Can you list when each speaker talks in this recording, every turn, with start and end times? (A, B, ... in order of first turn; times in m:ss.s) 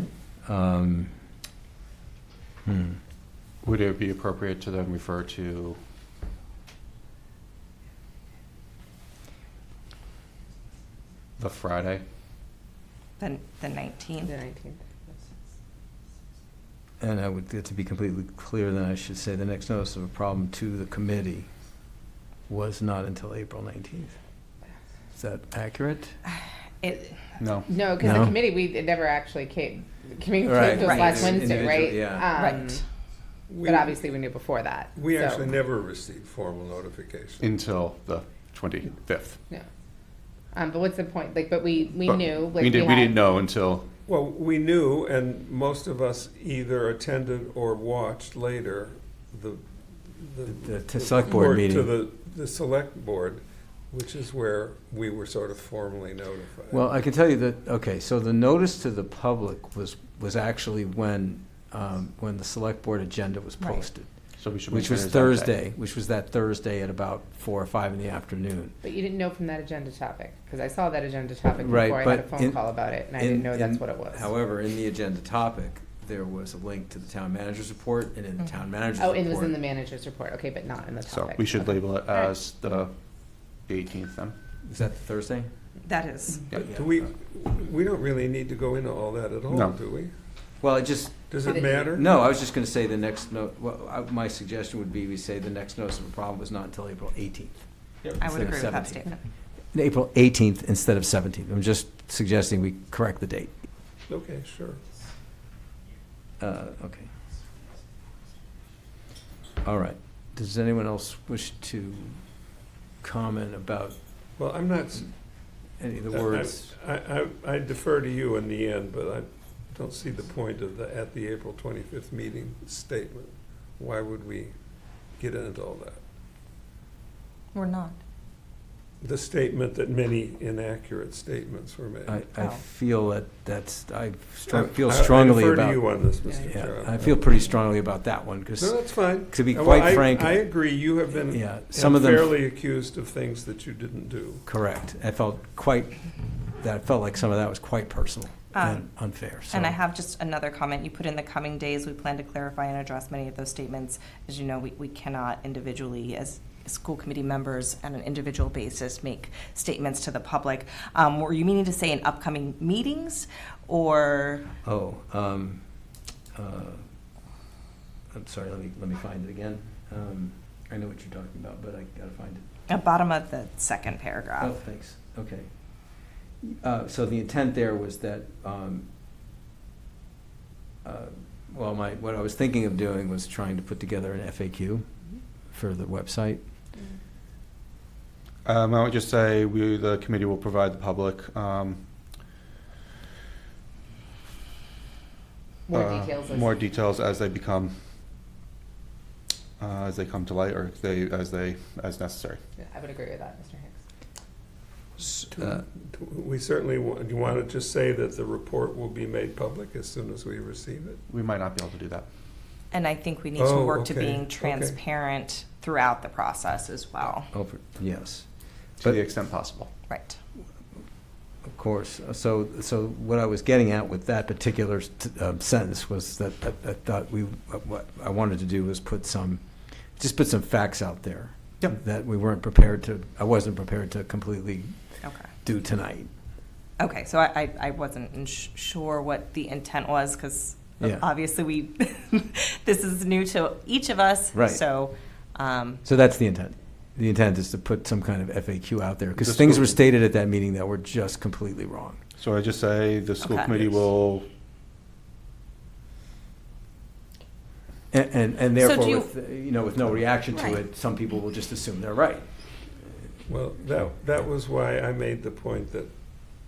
0:00.4-0:01.2 A
0:02.7-0:03.0 A
0:03.6-0:05.8 B
0:11.4-0:12.0 B
0:13.2-0:14.3 C
0:14.2-0:15.2 D
0:17.0-0:21.5 A
0:22.5-0:24.2 A
0:25.2-0:26.2 A
0:26.8-0:27.2 C
0:27.4-0:27.8 B
0:27.7-0:32.8 D
0:28.0-0:28.4 A
0:30.4-0:32.3 A
0:32.4-0:32.8 C
0:33.5-0:34.0 E
0:33.6-0:35.6 D
0:34.9-0:37.5 E
0:37.4-0:39.4 B
0:40.5-0:43.2 D
0:42.0-0:43.9 B
0:44.0-0:56.9 E
0:50.5-0:51.9 A
0:56.7-1:08.8 A
1:03.6-1:03.9 C
1:04.4-1:05.6 B
1:08.8-1:14.3 D
1:11.5-1:19.6 A
1:19.0-1:22.2 D
1:21.1-1:24.4 B
1:24.6-1:25.5 A
1:25.8-1:26.5 C
1:26.5-1:27.0 A
1:26.6-1:30.1 E
1:29.5-1:29.8 B
1:30.6-1:39.1 A
1:31.3-1:32.2 E
1:31.4-1:32.0 D
1:38.2-1:39.2 C
1:39.7-1:43.7 A
1:44.1-1:44.8 E
1:46.4-1:47.1 A
1:49.6-1:54.0 A
1:54.4-1:55.2 E
1:55.7-1:56.7 A
1:56.1-2:04.6 E
2:05.1-2:06.0 E
2:07.5-2:08.0 C
2:09.0-2:12.3 E
2:12.1-2:20.5 A
2:12.4-2:12.6 C
2:14.4-2:17.2 E
2:18.6-2:24.4 E
2:21.3-2:22.3 A
2:24.4-2:29.8 A
2:28.5-2:44.5 C
2:44.6-2:45.6 A
2:46.3-2:46.8 A
2:48.1-2:52.4 A
2:52.7-2:54.5 C
2:54.4-2:58.9 A
3:00.8-3:06.4 A
3:08.4-3:11.9 B
3:15.7-3:16.5 D
3:15.7-3:17.8 B
3:19.6-3:22.4 B
3:22.6-3:23.8 D
3:25.0-3:31.0 E
3:25.4-3:25.6 A
3:31.1-3:32.1 B
3:32.7-3:37.3 C
3:33.4-3:34.8 E
3:37.3-3:39.0 A
3:38.8-3:39.7 B
3:39.9-3:40.2 C
3:41.4-3:54.8 A
3:55.0-3:55.3 C
3:55.3-3:56.1 A
3:56.8-4:05.8 C
4:04.3-4:04.6 A
4:05.8-4:12.0 A
4:09.2-4:09.8 B
4:12.2-4:14.3 B
4:13.2-4:13.8 C
4:17.9-4:22.7 A
4:18.6-4:19.1 C
4:20.3-4:20.6 C
4:23.3-4:25.9 E